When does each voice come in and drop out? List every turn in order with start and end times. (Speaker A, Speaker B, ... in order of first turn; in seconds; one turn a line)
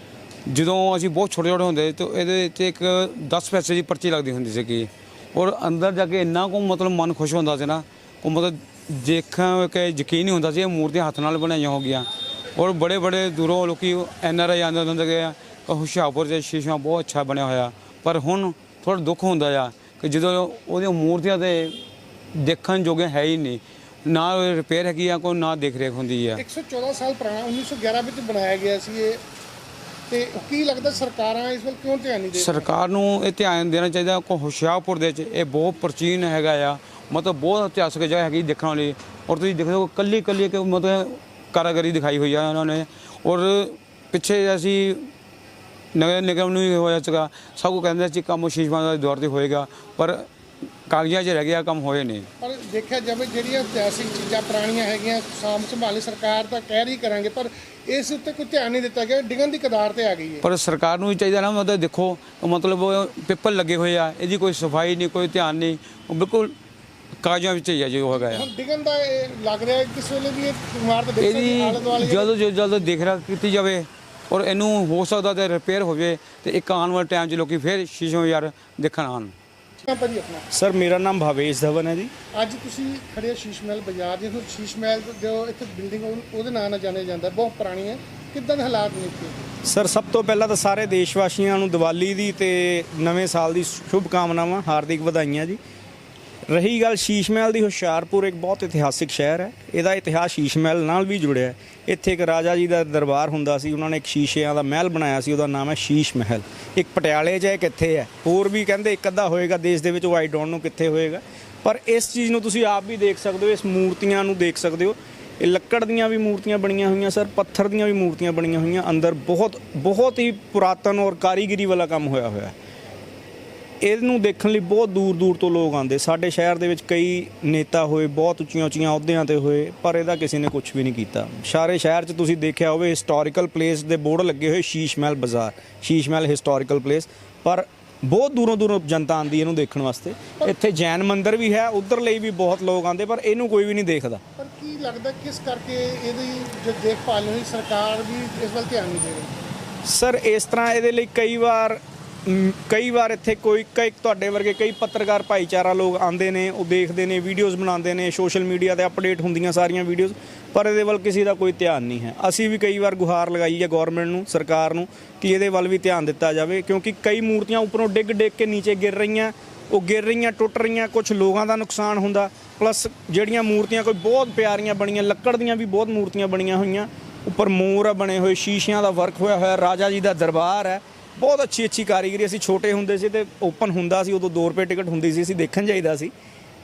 Speaker A: 0.5-21.8
Speaker A: 22.3-26.4
Speaker B: 26.4-29.2
Speaker B: 30.1-32.7
Speaker A: 32.3-45.1
Speaker A: 45.9-50.3
Speaker A: 50.9-52.3
Speaker B: 52.4-60.5
Speaker A: 60.4-66.6
Speaker A: 67.2-68.5
Speaker B: 68.1-72.3
Speaker A: 71.2-79.3
Speaker B: 79.8-80.5
Speaker C: 80.5-82.1
Speaker B: 82.3-89.5
Speaker C: 89.6-95.6
Speaker C: 96.5-122.5
Speaker C: 123.8-144.2
Speaker B: 144.4-149.3
Speaker C: 149.8-186.1